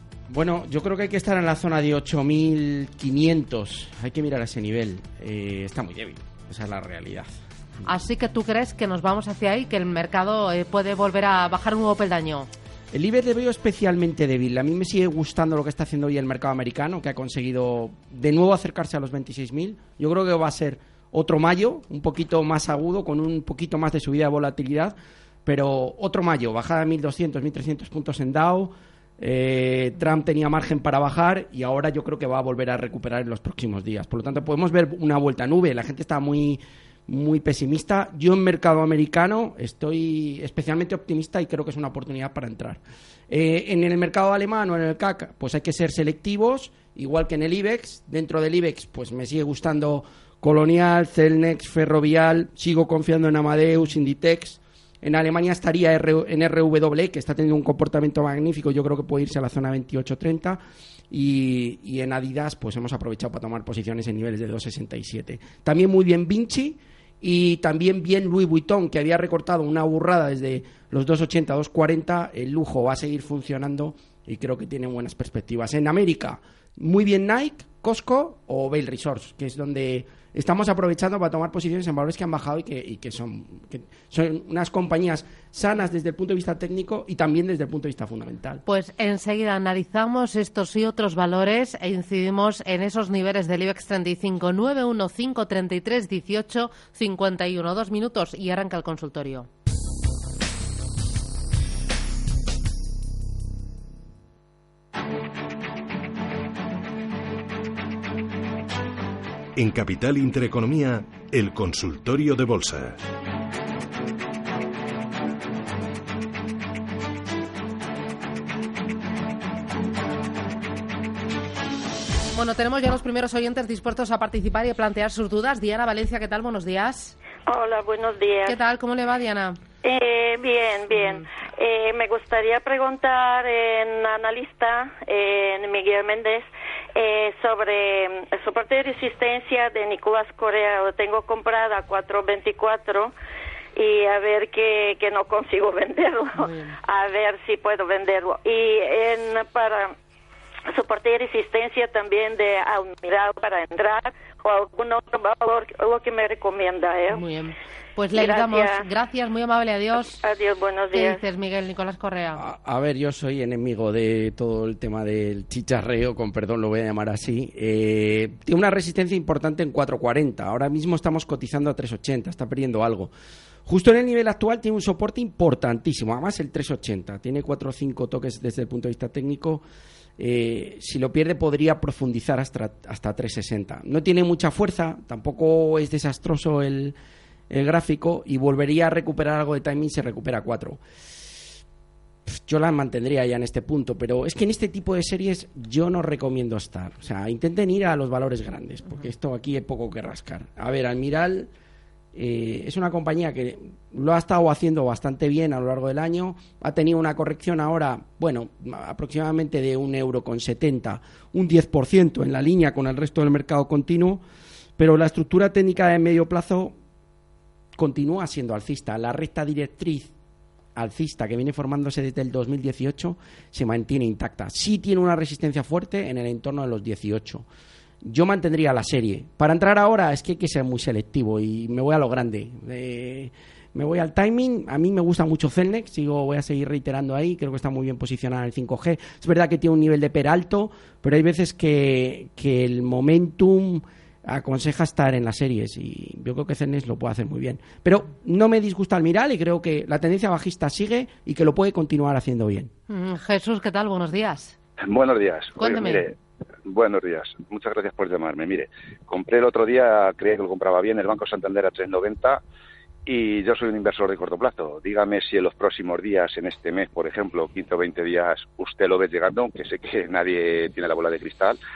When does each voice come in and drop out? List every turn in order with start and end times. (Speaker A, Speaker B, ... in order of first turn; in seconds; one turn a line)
Speaker A: 0.3-7.3
Speaker B: 7.9-12.5
Speaker A: 12.9-24.9
Speaker A: 25.5-88.6
Speaker B: 88.7-99.5
Speaker C: 109.6-113.0
Speaker B: 122.3-127.2
Speaker D: 127.5-128.6
Speaker B: 128.4-129.6
Speaker D: 129.8-136.4
Speaker D: 137.0-143.1
Speaker D: 143.8-149.9
Speaker B: 146.4-146.8
Speaker D: 150.7-157.2
Speaker B: 157.1-160.2
Speaker D: 158.1-158.8
Speaker D: 160.2-161.2
Speaker B: 160.9-162.4
Speaker A: 162.3-173.1
Speaker A: 173.7-179.6
Speaker A: 180.2-187.0
Speaker A: 187.5-190.8
Speaker A: 192.3-201.5
Speaker A: 202.1-214.2
Speaker A: 214.8-216.7
Speaker A: 217.8-220.1
Speaker A: 220.8-227.5
Speaker A: 228.0-252.7
Speaker B: 252.9-254.6
Speaker E: 254.8-256.1
Speaker B: 255.6-256.1
Speaker E: 256.7-262.4
Speaker E: 263.1-271.6